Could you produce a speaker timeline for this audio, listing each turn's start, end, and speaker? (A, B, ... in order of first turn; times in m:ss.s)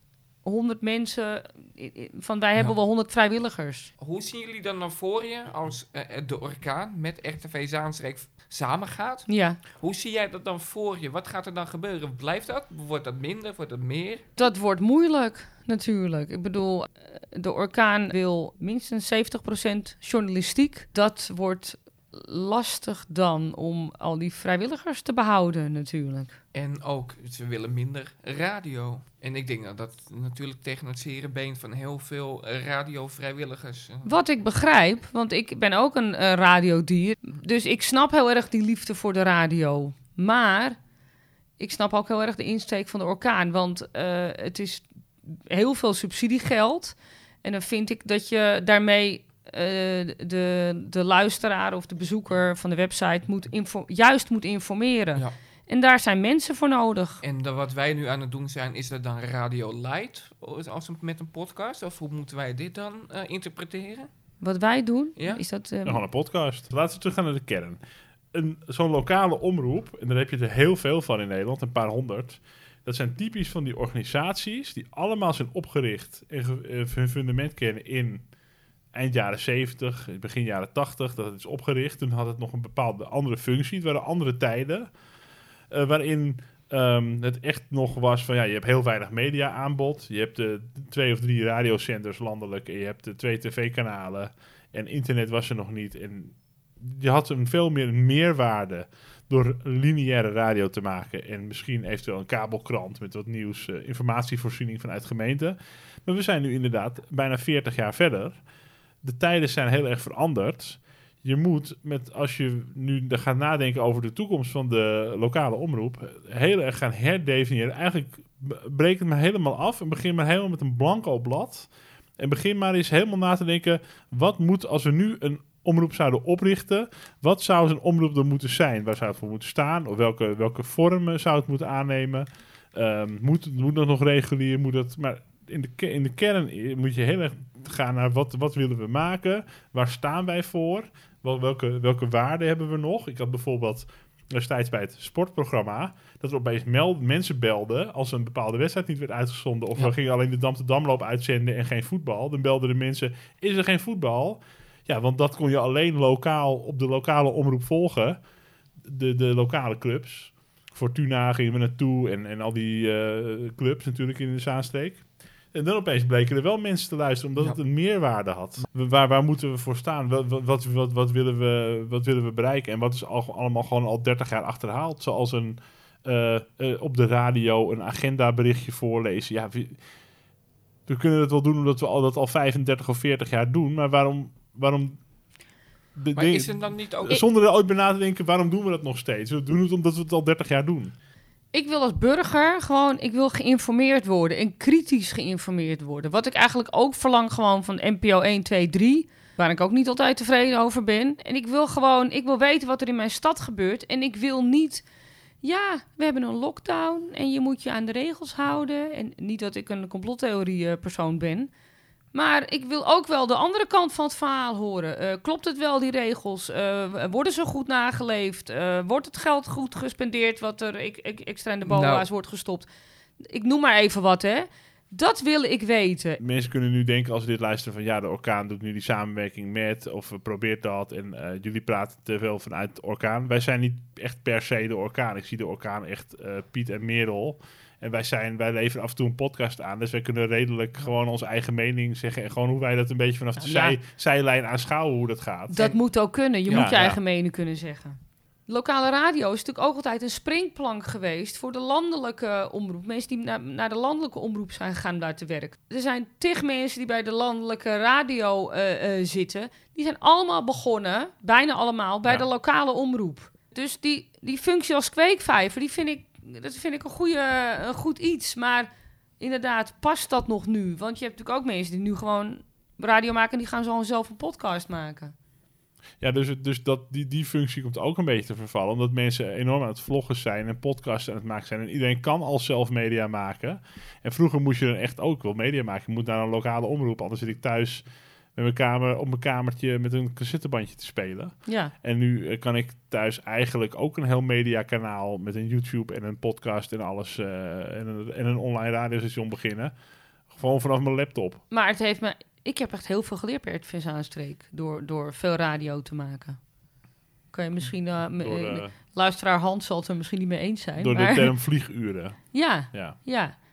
0:00.4-0:03.9 A
0:04.0-0:14.2 B
0:09.3-0:09.6 A
0:14.4-0:26.4 A
0:26.5-0:34.1 B
0:34.0-0:40.8 A
0:41.6-0:57.2 A
0:57.2-1:04.1 B
1:04.4-1:06.0 A
1:05.2-1:05.4 B
1:05.8-1:07.8 C
1:08.3-1:18.2 C
1:18.9-1:24.9 C
1:25.7-1:48.4 C
1:49.0-2:38.2 C
2:38.8-2:59.8 C
3:00.9-3:05.0 C
3:05.9-3:10.9 C
3:06.1-3:07.2 B
3:11.5-3:24.8 A
3:25.4-3:31.5 A
3:32.1-3:42.7 A
3:41.6-3:42.1 B
3:43.2-3:46.2 A
3:46.2-4:05.7 C
4:03.4-4:03.8 A
4:05.5-4:35.1 A
4:06.5-4:06.8 B
4:06.5-4:07.0 C
4:36.0-4:47.8 C
4:48.3-4:59.7 C
4:51.4-4:51.7 A
5:00.3-5:01.4 C
5:01.5-5:06.4 A
5:07.3-5:11.5 A
5:08.1-5:08.7 C
5:10.8-5:13.0 C
5:12.3-5:13.3 A